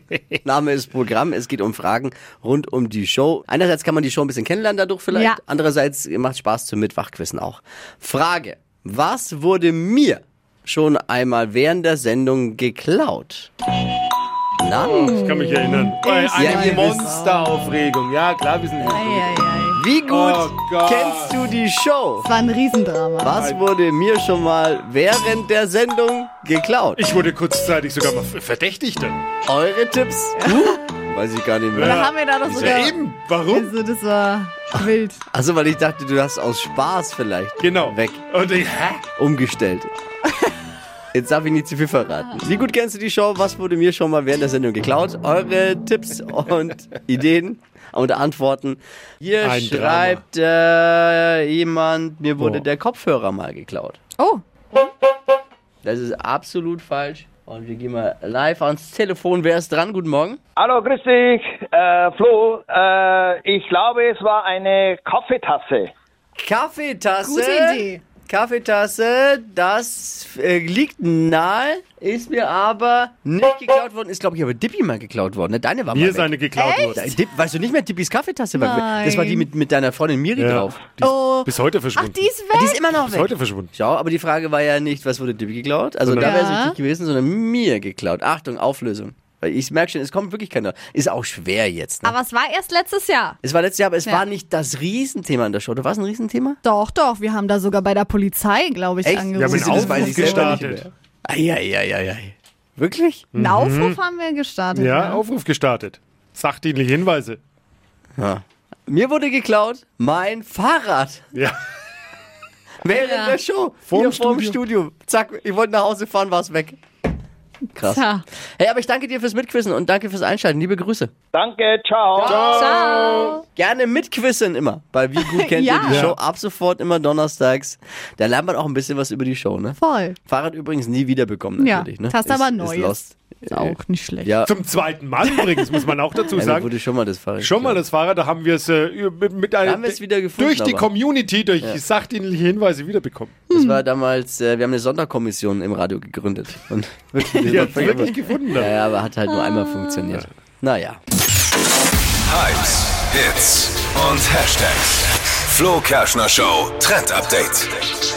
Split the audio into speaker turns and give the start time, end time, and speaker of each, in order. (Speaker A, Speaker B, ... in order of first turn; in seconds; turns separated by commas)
Speaker A: 0.4-13.5, Speaker B: 5.1-5.4, Speaker A: 14.6-15.2, Speaker B: 14.8-17.5, Speaker C: 14.8-19.3, Speaker A: 16.3-17.1, Speaker A: 18.8-19.1, Speaker B: 18.9-19.8, Speaker A: 19.7-22.3, Speaker C: 20.0-21.4, Speaker B: 22.2-23.4, Speaker A: 23.2-27.0, Speaker C: 23.3-23.6, Speaker C: 26.9-29.2, Speaker A: 29.5-32.9, Speaker B: 30.4-30.8, Speaker C: 31.7-33.7, Speaker B: 31.8-33.0, Speaker B: 33.5-35.2, Speaker A: 35.3-38.2, Speaker C: 37.6-39.1, Speaker A: 39.2-39.9, Speaker A: 41.1-54.0, Speaker C: 49.4-50.2, Speaker C: 52.4-52.6, Speaker B: 54.2-54.8, Speaker A: 55.8-60.4, Speaker D: 60.6-65.9, Speaker A: 66.4-76.3, Speaker B: 67.2-68.0, Speaker C: 75.9-77.1, Speaker B: 76.5-77.1, Speaker A: 76.9-80.8, Speaker B: 78.5-79.5, Speaker C: 80.4-82.3, Speaker B: 81.0-82.8, Speaker A: 82.5-92.1, Speaker C: 83.0-83.7, Speaker C: 86.1-86.3, Speaker B: 86.2-86.8, Speaker B: 92.0-93.4, Speaker A: 93.4-96.6, Speaker B: 96.6-100.5, Speaker A: 99.0-103.3, Speaker C: 99.3-100.9, Speaker C: 103.3-104.0, Speaker B: 103.3-105.2, Speaker C: 104.7-107.4, Speaker A: 108.2-111.2, Speaker A: 112.8-116.8, Speaker B: 113.0-113.3, Speaker C: 113.9-114.6, Speaker A: 117.8-118.0, Speaker B: 117.8-118.2, Speaker A: 118.6-121.1, Speaker D: 121.3-122.3, Speaker A: 122.1-134.5, Speaker C: 122.2-123.2, Speaker B: 122.5-123.4, Speaker B: 125.2-126.1, Speaker C: 125.9-126.2, Speaker B: 129.8-130.2, Speaker B: 131.6-134.3, Speaker C: 134.4-136.7, Speaker B: 135.2-135.5, Speaker A: 136.3-137.8, Speaker C: 137.4-143.3, Speaker A: 139.6-140.9, Speaker B: 143.5-143.8, Speaker A: 143.5-151.0, Speaker C: 147.4-148.7, Speaker B: 149.3-150.0, Speaker E: 152.3-157.7